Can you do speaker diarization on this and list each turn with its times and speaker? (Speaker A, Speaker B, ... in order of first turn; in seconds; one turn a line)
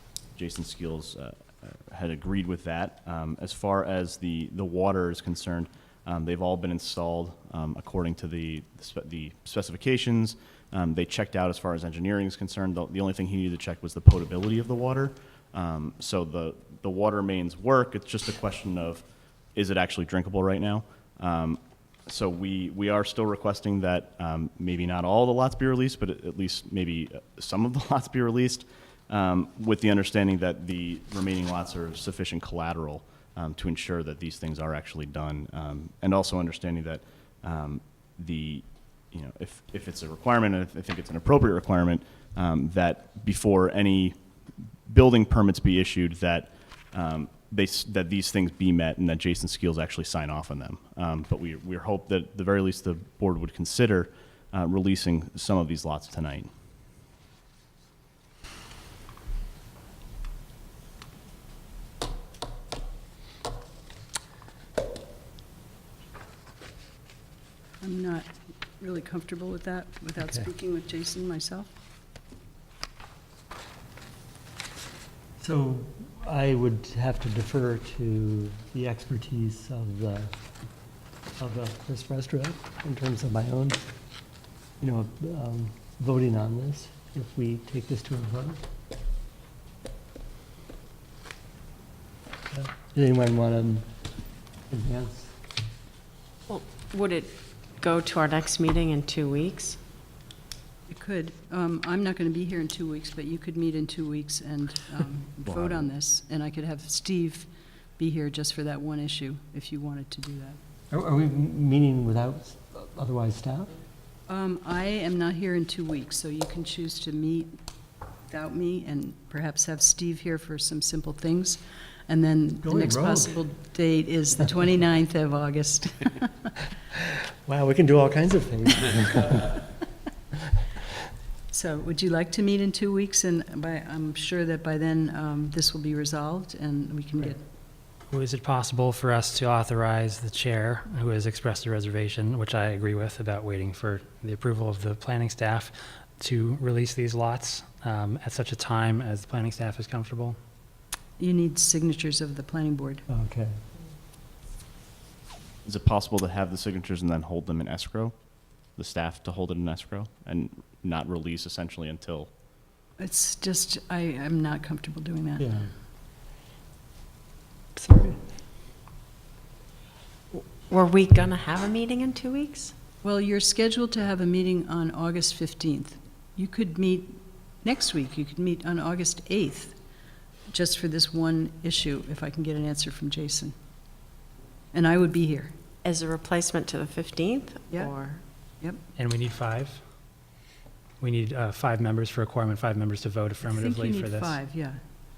Speaker A: 0.4-44.2
Speaker A: 44.9-56.5
Speaker B: 67.8-68.3
Speaker B: 68.8-71.7
Speaker C: 70.2-70.5
Speaker C: 75.4-80.3
Speaker C: 81.4-83.8
Speaker C: 84.8-88.6
Speaker C: 92.5-93.9
Speaker C: 94.7-95.3
Speaker D: 96.5-99.8
Speaker B: 100.9-110.6
Speaker A: 105.4-105.8
Speaker C: 110.9-113.7
Speaker B: 114.3-117.5
Speaker B: 118.3-126.5
Speaker C: 122.6-123.4
Speaker C: 127.0-129.6
Speaker B: 131.5-137.4
Speaker E: 138.1-150.4
Speaker B: 151.2-153.1
Speaker C: 153.1-153.6
Speaker A: 155.7-158.1
Speaker A: 158.8-162.3
Speaker B: 163.0-165.5
Speaker C: 165.4-165.7
Speaker C: 167.8-168.2
Speaker D: 170.3-172.7
Speaker B: 173.0-179.8
Speaker B: 180.5-183.5
Speaker B: 184.7-185.5
Speaker D: 185.8-188.2
Speaker E: 189.0-189.8
Speaker E: 191.0-194.4
Speaker B: 193.4-194.8